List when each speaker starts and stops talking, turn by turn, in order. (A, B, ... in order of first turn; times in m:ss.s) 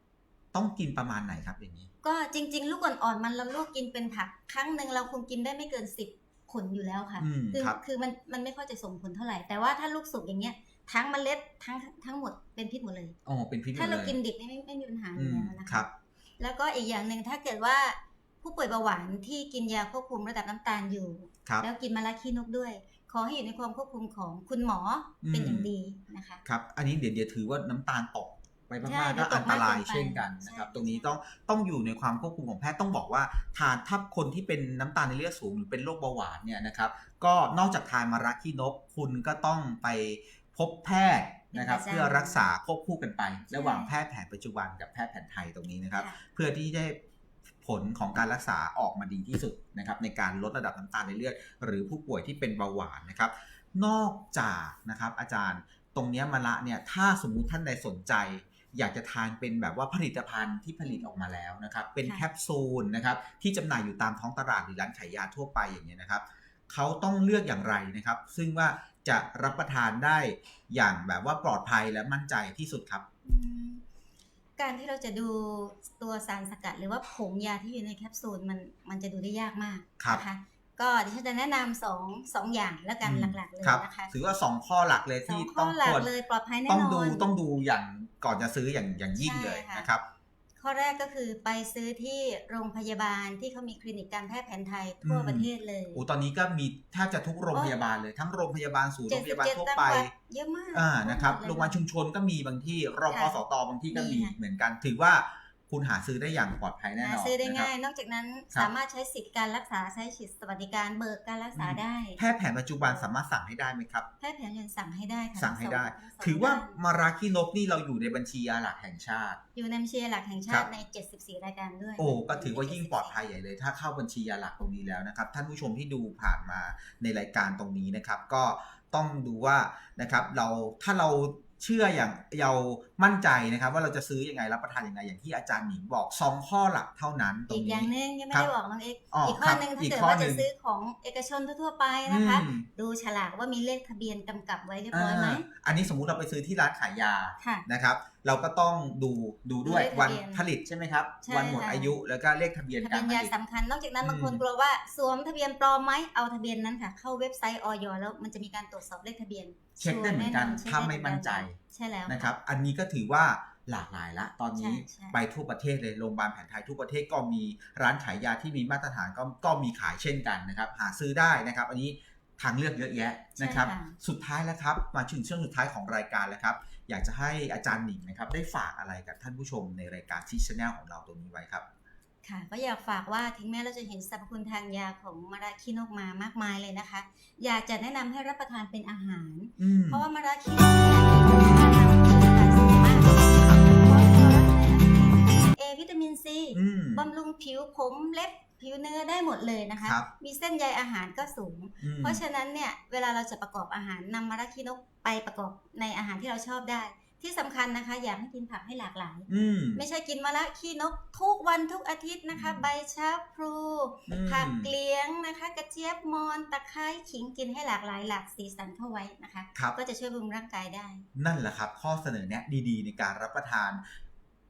0:00.5-0:01.9 A
0:02.0-0:13.1 B
0:07.2-0:07.8 A
0:13.2-0:14.2 A
0:13.7-0:15.9 B
0:15.2-0:15.9 A
0:16.4-0:26.4 B
0:25.2-0:25.7 A
0:26.4-0:47.0 A
0:28.8-0:31.1 B
0:41.5-0:42.4 B
0:43.5-0:43.9 B
0:47.6-1:13.0 A
1:00.8-1:01.1 B
1:13.2-1:13.8 B
1:14.6-1:24.1 B
1:23.0-1:26.1 A
1:25.2-1:27.3 B
1:26.7-1:30.0 A
1:29.1-1:29.9 B
1:30.6-1:36.0 B
1:35.0-1:40.1 A
1:39.1-1:41.8 B
1:40.7-1:47.7 A
1:43.1-1:44.3 B
1:47.0-1:52.2 B
1:51.5-1:54.0 A
1:52.8-1:53.1 B
1:54.2-1:56.8 B
1:55.4-1:59.4 A
1:59.5-2:03.2 B
2:02.0-2:18.5 A
2:17.5-2:25.4 B
2:19.1-2:20.5 A
2:22.1-2:22.7 A
2:24.9-2:33.3 A
2:27.4-2:27.6 B
2:29.6-2:30.5 B
2:31.2-2:31.9 B
2:32.8-2:42.3 B
2:34.0-2:34.4 A
2:39.8-3:01.6 A
2:44.5-2:45.2 B
2:53.4-2:54.0 B
3:02.2-3:41.0 B
3:09.6-3:10.0 A
3:13.2-3:13.7 A
3:16.5-3:17.0 A
3:19.8-3:20.1 A
3:21.8-3:22.2 A
3:29.3-3:29.8 A
3:32.3-3:32.7 A
3:34.1-3:34.7 A
3:41.1-3:43.8 A